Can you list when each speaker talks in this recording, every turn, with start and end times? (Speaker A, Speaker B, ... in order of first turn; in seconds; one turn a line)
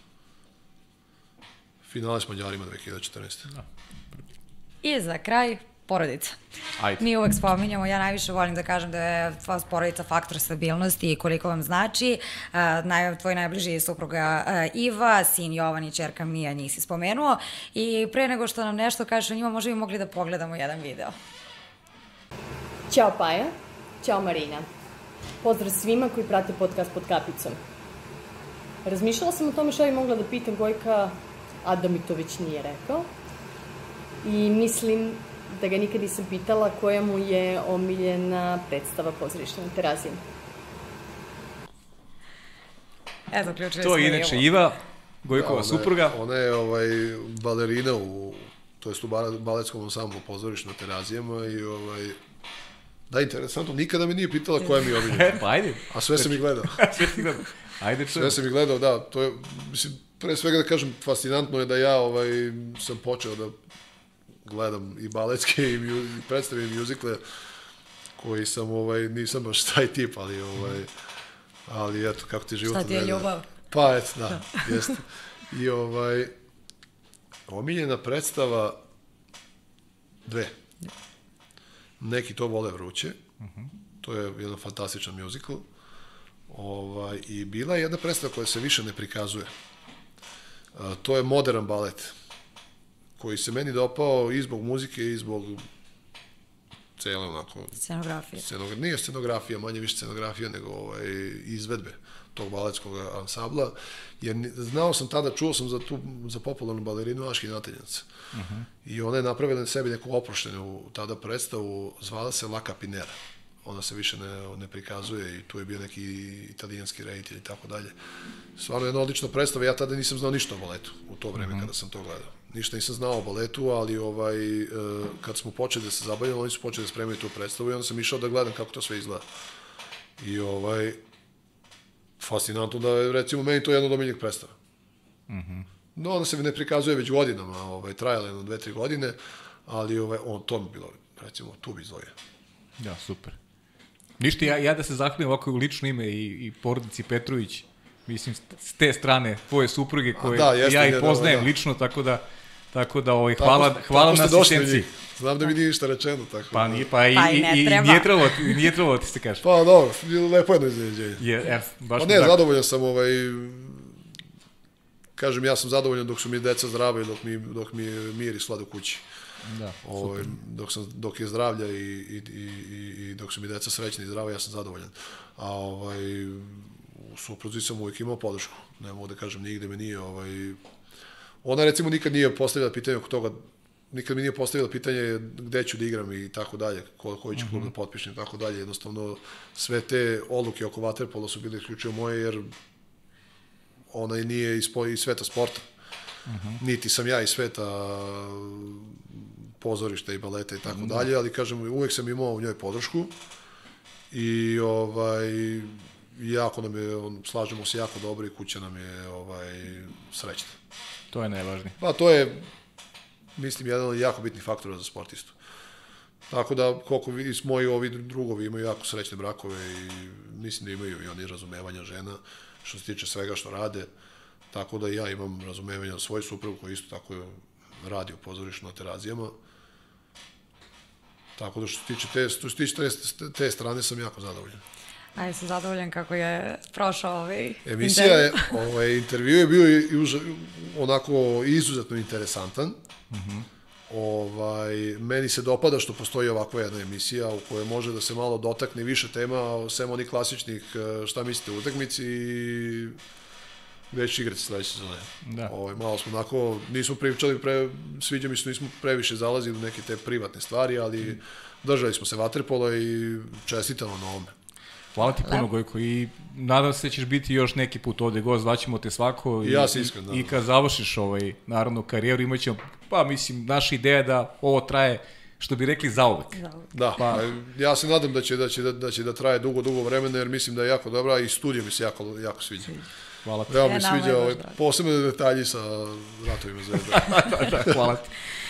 Speaker A: 1.8-3.5
Speaker B: 4.8-6.4
Speaker B: 7.0-21.1
Speaker C: 22.9-24.7
Speaker C: 25.4-27.6
Speaker C: 28.8-33.1
Speaker C: 34.2-40.2
Speaker B: 43.3-44.5
Speaker D: 43.8-46.2
Speaker A: 45.3-52.2
Speaker A: 53.1-56.9
Speaker D: 54.9-58.4
Speaker A: 58.1-63.5
Speaker A: 64.4-67.2
Speaker A: 68.2-70.9
Speaker A: 71.7-76.3
Speaker B: 72.7-73.5
Speaker A: 77.5-78.8
Speaker A: 80.2-80.5
Speaker A: 82.0-83.2
Speaker D: 83.4-83.7
Speaker A: 84.0-85.7
Speaker A: 86.5-89.5
Speaker A: 90.7-92.1
Speaker A: 93.2-95.7
Speaker A: 97.0-97.8
Speaker B: 97.8-98.4
Speaker A: 98.4-108.1
Speaker D: 108.3-108.7
Speaker A: 108.8-117.9
Speaker A: 118.5-129.3
Speaker D: 121.4-121.7
Speaker A: 130.2-131.0
Speaker A: 132.2-134.5
Speaker D: 135.3-135.7
Speaker A: 135.9-142.1
Speaker D: 142.8-143.4
Speaker D: 144.2-154.9
Speaker A: 150.2-151.5
Speaker A: 153.4-156.9
Speaker D: 156.5-159.4
Speaker B: 157.1-158.7
Speaker A: 159.4-161.2
Speaker D: 161.2-162.4
Speaker A: 162.0-164.0
Speaker A: 165.2-169.0
Speaker D: 169.5-170.3
Speaker A: 169.8-180.6
Speaker A: 181.4-192.5
Speaker D: 187.3-187.7
Speaker A: 193.9-195.7
Speaker D: 196.3-196.6
Speaker A: 196.6-203.1
Speaker D: 200.7-201.1
Speaker A: 204.1-210.6
Speaker D: 211.1-211.7
Speaker A: 211.8-212.4
Speaker A: 213.4-215.3
Speaker A: 216.3-223.9
Speaker A: 224.5-229.3
Speaker A: 231.4-234.6
Speaker B: 235.2-238.6
Speaker A: 237.6-242.8
Speaker D: 243.1-243.5
Speaker A: 243.9-253.0
Speaker A: 253.9-264.3
Speaker D: 255.2-255.5
Speaker D: 264.9-276.4
Speaker A: 269.4-270.4
Speaker B: 276.4-276.7
Speaker A: 276.7-282.8
Speaker D: 283.2-283.6
Speaker A: 283.5-287.9
Speaker B: 283.5-284.6
Speaker D: 286.9-288.1